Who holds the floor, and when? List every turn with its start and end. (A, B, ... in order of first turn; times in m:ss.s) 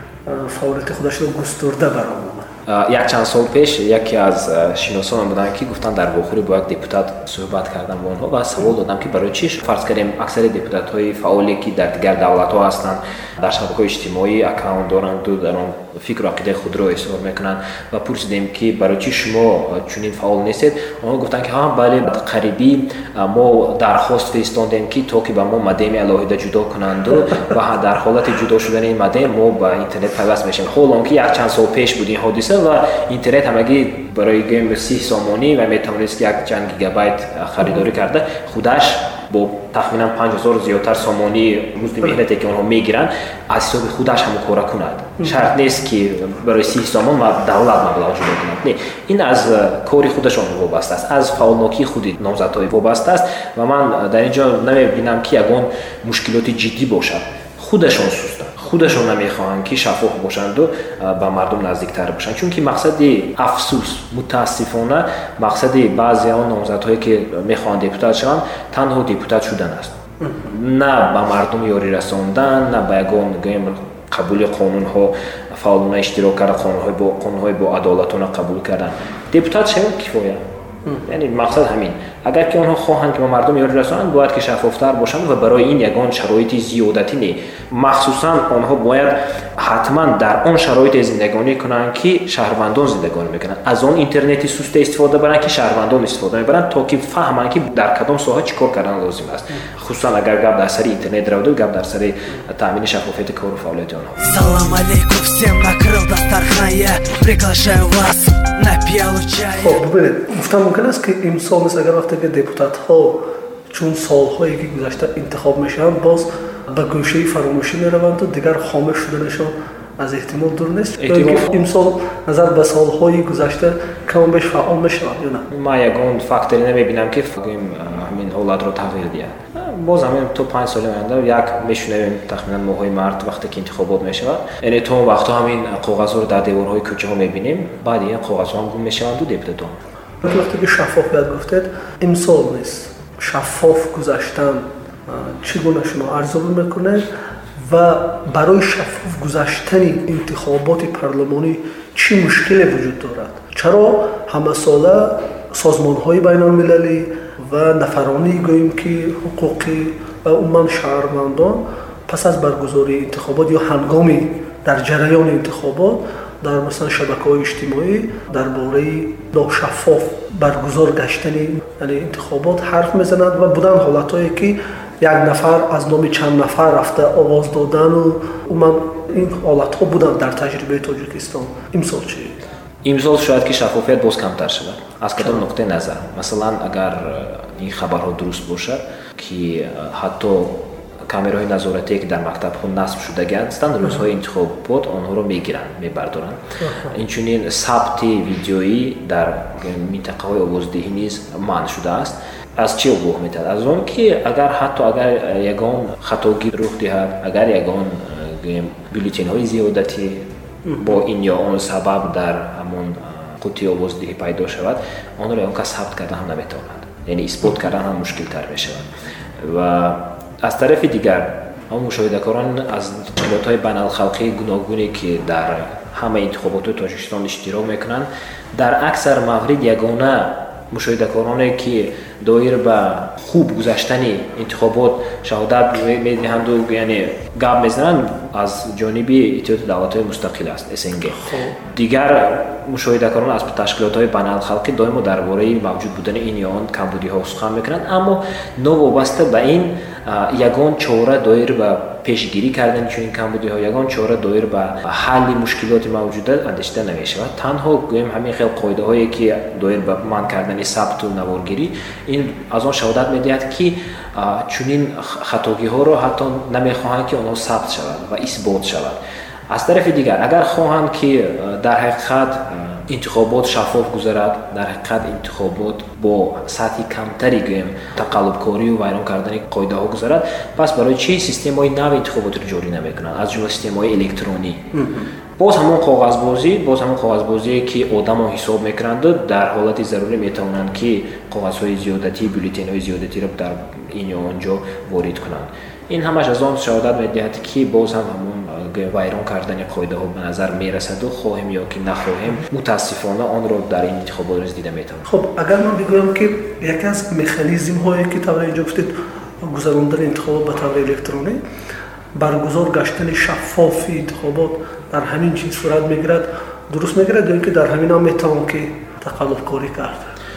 0:00.2-0:02.5 A
0:02.6-1:20.4 B
1:20.9-1:44.3 B
1:44.2-1:49.7 C
1:49.6-2:05.4 A
2:01.0-2:01.5 B
2:05.5-2:19.8 B
2:20.2-2:27.0 A
2:27.7-3:02.4 A
3:02.8-3:38.9 B
3:39.4-4:29.0 B
4:01.1-4:01.6 A
4:29.5-4:44.7 B
4:44.8-4:45.1 A
4:45.4-5:05.1 B
5:05.0-5:08.9 A
5:09.4-5:11.4 A
5:12.2-5:20.1 A